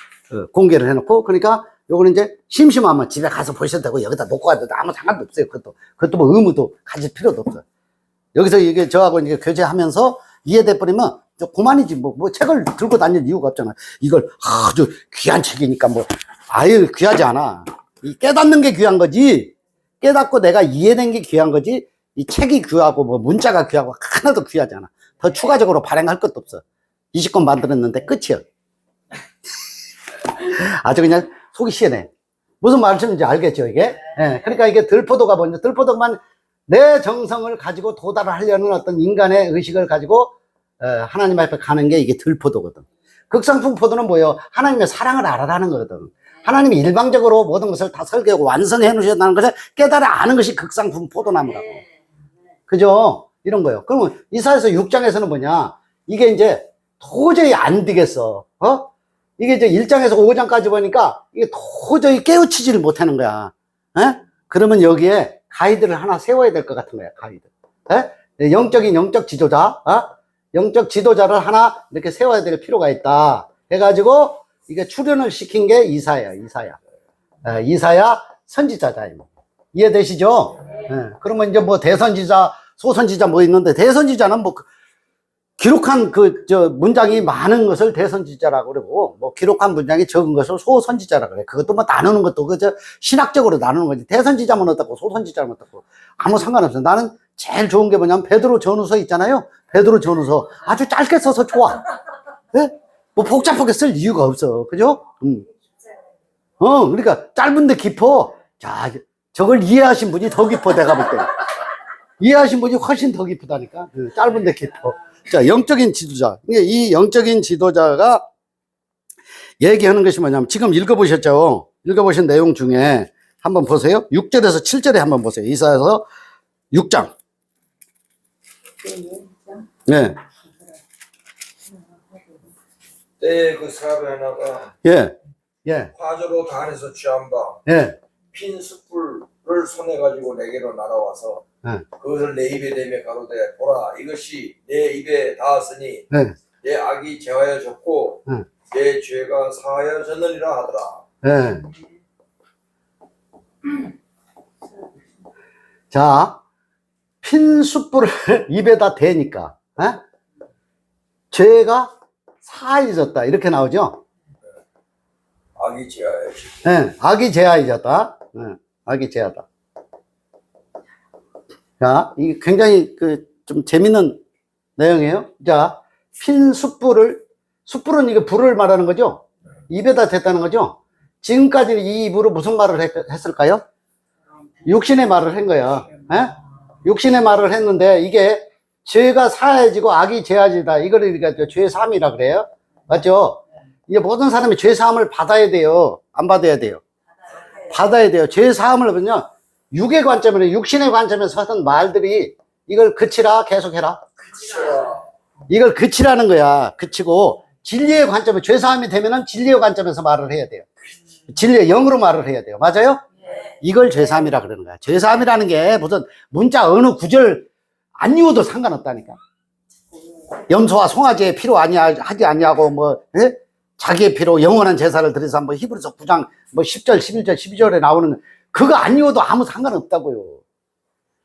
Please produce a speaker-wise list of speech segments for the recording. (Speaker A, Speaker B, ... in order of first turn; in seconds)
Speaker A: 0.3-7.6, 8.3-28.4, 30.4-32.1, 32.6-51.8, 52.7-76.8, 77.4-84.7, 85.6-101.8, 102.5-105.5, 106.6-111.4, 112.2-118.2, 119.6-126.0, 126.7-127.1, 129.9-130.2, 134.8-135.1, 135.6-135.9, 137.7-138.0, 146.1-146.4, 151.2-151.6, 155.9-156.4, 157.2-160.0, 161.3-164.0, 166.6-169.4, 171.8-174.2, 174.8-183.6, 184.7-196.8, 197.7-204.1, 205.5-210.7, 211.3-217.5, 218.0-219.2, 220.5-230.4
Speaker B: 133.2-134.7, 135.9-137.6, 138.3-141.4, 142.0-146.1, 146.6-151.0, 165.6-166.6, 204.3-205.0